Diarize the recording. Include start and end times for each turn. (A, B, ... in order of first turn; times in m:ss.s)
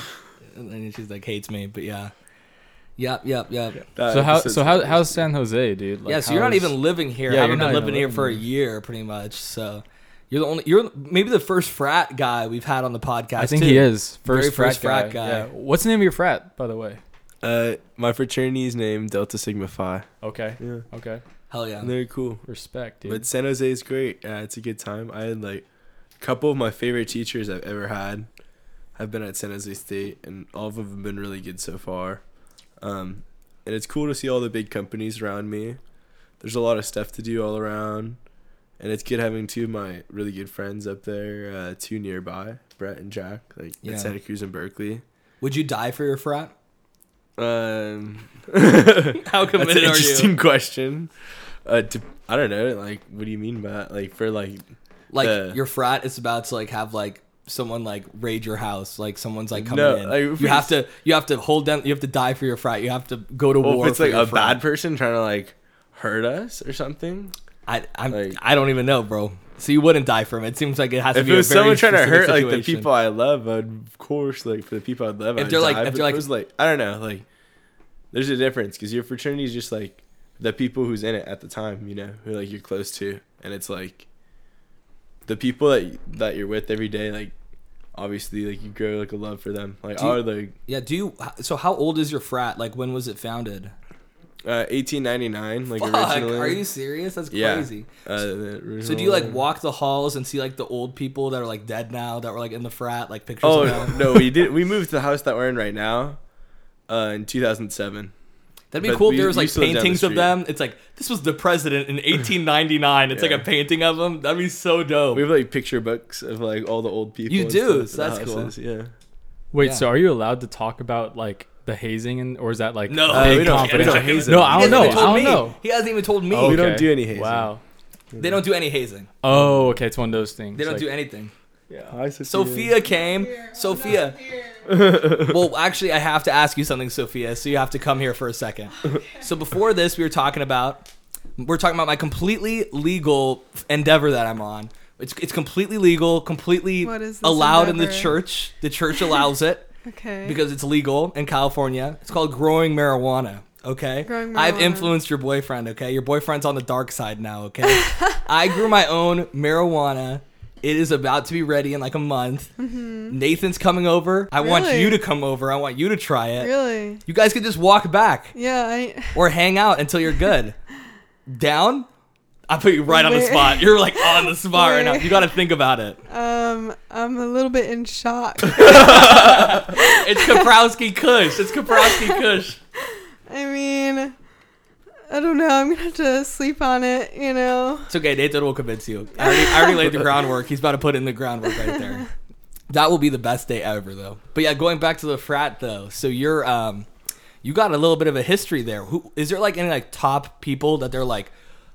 0:00.5-0:02.1 A
0:03.0-0:03.8 A
0:04.0-0:05.2 B
0:04.1-0:08.4 C
0:06.1-0:15.5 A
0:13.4-0:17.0 C
0:17.4-0:20.1 B
0:20.2-0:21.2 C
0:21.5-0:21.9 A
0:21.8-0:22.4 B
0:22.5-0:23.2 C
0:23.0-0:25.6 B
0:26.2-0:28.3 B
0:29.0-0:32.2 B
0:32.8-0:35.8 B
0:36.4-0:38.2 B
0:38.8-0:45.0 B
0:43.8-0:44.1 A
0:45.4-0:46.5 A
0:47.4-0:51.1 B
0:49.2-0:50.3 A
0:51.6-0:54.7 B
0:55.1-1:04.6 A
0:55.2-0:55.6 B
0:59.6-1:00.8 B
1:03.6-1:07.3 B
1:07.7-1:12.9 A
1:08.1-1:08.4 B
1:11.1-1:17.2 B
1:15.4-1:16.3 A
1:18.1-1:24.1 B
1:25.3-1:27.3 B
1:27.9-1:30.6 B
1:30.0-1:33.7 A
1:34.4-1:36.6 B
1:35.8-1:37.9 A
1:37.3-1:39.4 B
1:38.8-1:44.3 A
1:43.4-1:46.2 B
1:46.9-1:48.1 B
1:48.7-1:55.3 A
1:48.8-1:50.3 B
1:53.1-1:53.5 B
1:55.1-1:58.9 B
1:57.3-1:58.5 A
1:59.5-2:05.6 C
1:59.6-1:59.9 A
2:02.9-2:06.7 A
2:03.1-2:05.4 B
2:06.3-2:07.6 C
2:06.4-2:07.5 B
2:08.1-2:08.4 B
2:08.2-2:09.1 A
2:09.2-2:10.9 C
2:09.3-2:09.7 B
2:10.6-2:11.3 A
2:11.7-2:12.0 C
2:11.9-2:12.8 B
2:12.3-2:14.2 A
2:12.8-2:14.9 D
2:14.7-2:15.4 B
2:15.1-2:29.7 A
2:18.8-2:19.2 D
2:26.8-2:28.2 D
2:29.8-2:30.4 D
2:30.2-2:42.5 A
2:34.1-2:35.0 D
2:37.6-2:38.2 D
2:42.6-2:43.2 D
2:43.1-2:46.5 A
2:44.4-2:45.0 D
2:46.4-2:47.0 D
2:47.1-2:48.3 A
2:48.3-2:49.2 D
2:49.1-2:50.6 A
2:51.3-2:51.9 A
2:52.5-2:56.0 A
2:52.9-2:55.3 D
2:56.1-3:00.5 D
2:58.5-3:02.6 A
3:01.7-3:02.2 D
3:03.3-3:04.2 D
3:05.1-3:07.9 D
3:07.9-3:12.1 A
3:09.2-3:10.1 D
3:11.6-3:12.0 D
3:12.7-3:16.9 A
3:17.4-3:21.3 A